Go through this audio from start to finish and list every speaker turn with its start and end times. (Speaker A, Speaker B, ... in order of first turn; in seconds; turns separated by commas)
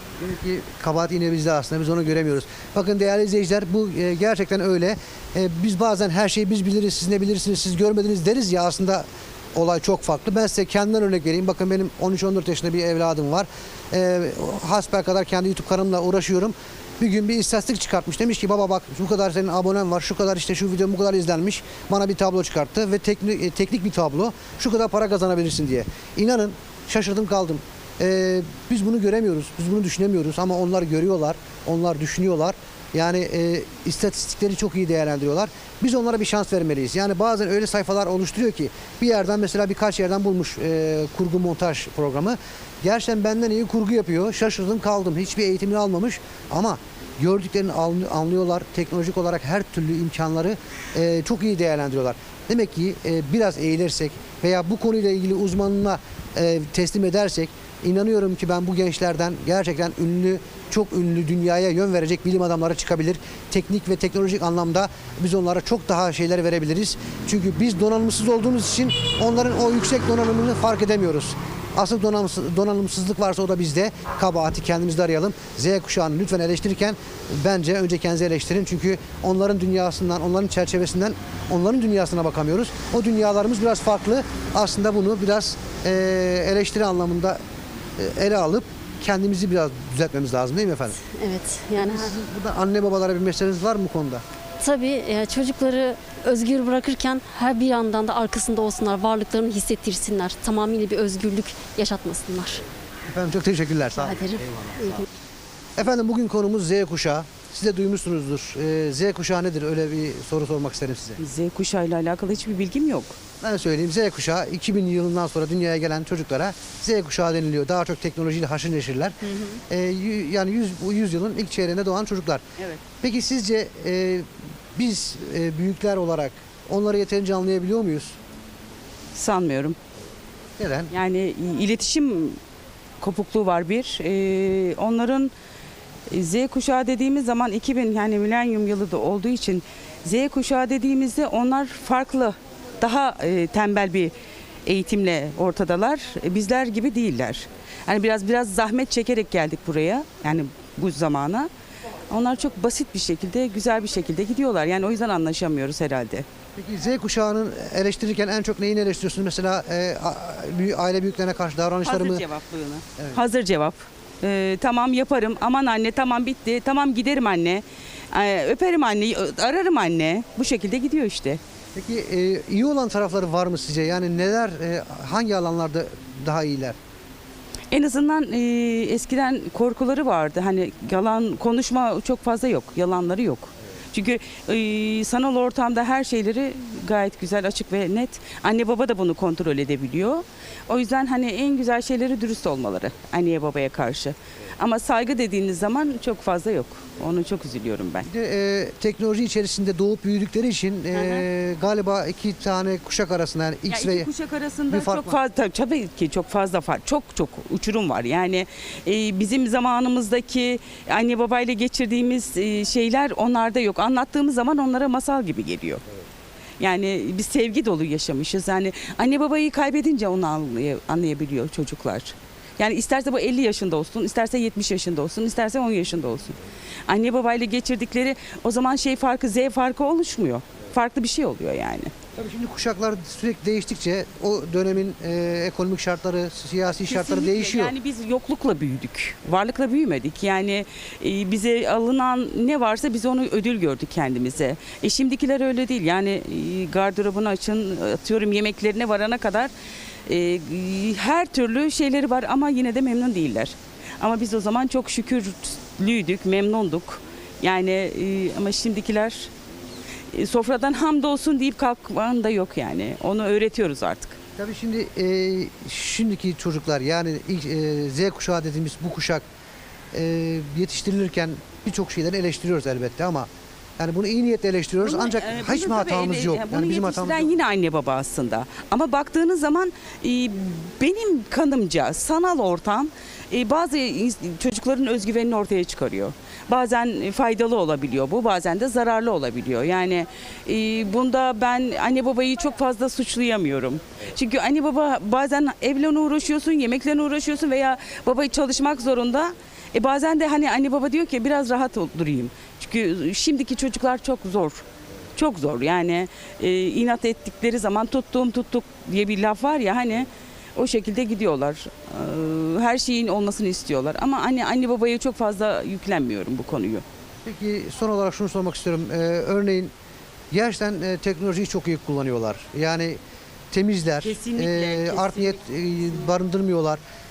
Speaker A: 0.2-87.4, Speaker A: 88.0-91.0, Speaker B: 91.0-92.1, Speaker A: 91.8-94.2, Speaker B: 94.6-102.6, Speaker A: 103.1-105.0, Speaker B: 104.0-105.0, Speaker A: 105.8-111.2, Speaker C: 111.2-113.2, Speaker A: 113.4-119.2, Speaker C: 119.2-119.6, Speaker A: 119.7-122.4, Speaker A: 123.0-128.2, Speaker C: 129.1-129.8, Speaker A: 130.6-130.9, Speaker C: 130.9-132.4, Speaker C: 133.0-135.3, Speaker C: 136.1-144.1, Speaker C: 144.7-151.5, Speaker C: 152.1-156.2, Speaker A: 156.6-162.2, Speaker C: 161.8-171.4, Speaker A: 171.7-176.8, Speaker C: 177.7-198.1, Speaker A: 198.0-204.1, Speaker C: 200.9-201.2, Speaker C: 203.7-215.8, Speaker A: 204.7-205.2, Speaker C: 216.6-226.4, Speaker C: 226.9-231.9, Speaker A: 232.2-237.7, Speaker C: 236.8-249.5, Speaker C: 250.1-259.3, Speaker C: 260.1-264.2, Speaker A: 264.4-269.2, Speaker A: 269.9-277.3, Speaker C: 274.8-304.6, Speaker C: 305.1-316.8, Speaker A: 317.2-319.7, Speaker A: 320.3-323.0, Speaker A: 323.5-326.8, Speaker C: 324.0-326.1